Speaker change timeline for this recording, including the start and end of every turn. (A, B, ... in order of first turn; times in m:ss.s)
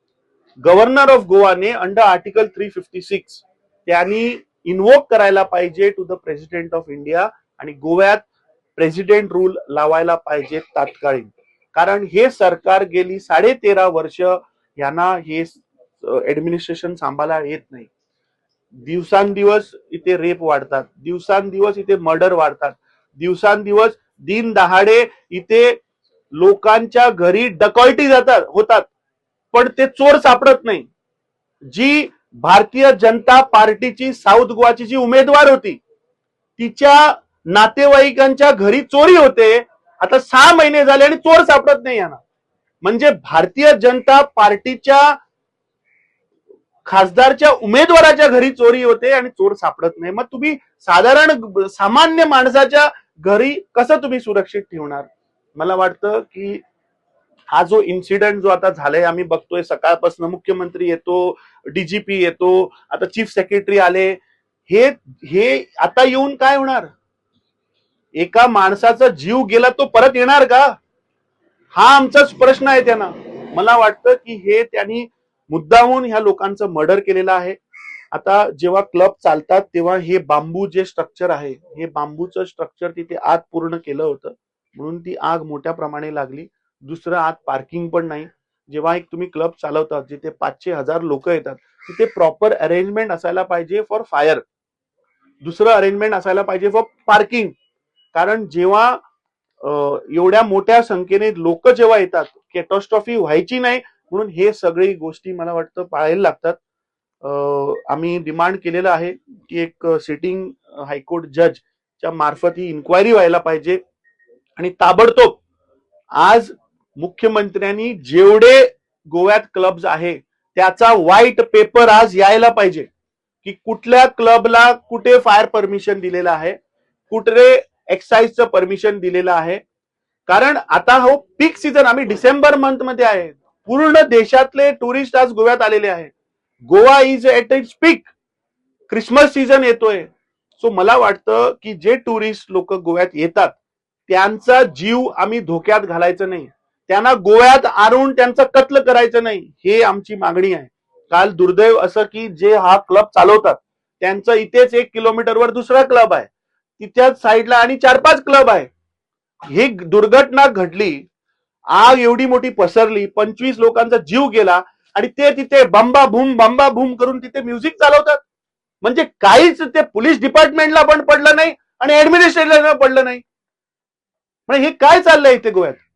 0:00.6-0:08.2 A
0:08.8-0:17.9 A
0:18.8-0:25.8 A
0:26.3-0:28.9 A
0:29.5-0:30.9 A
0:31.7-0:35.8 A
0:36.6-0:42.2 A
0:42.8-0:45.2 A
0:46.8-0:56.6 A
0:57.5-1:06.9 A
1:08.2-1:10.8 A
1:11.7-1:17.6 A
1:18.1-1:34.4 A
1:35.4-1:37.5 A
1:38.1-1:39.0 A
1:39.6-1:46.6 A
1:47.2-1:53.8 A
1:54.6-1:55.4 A
1:56.2-2:02.9 A
2:03.4-2:06.6 A
2:07.1-2:09.6 A
2:10.3-2:16.1 A
2:16.7-2:18.1 A
2:18.9-2:38.7 A
2:39.5-2:41.1 A
2:41.7-2:48.2 A
2:48.8-2:53.2 A
2:54.5-2:55.8 A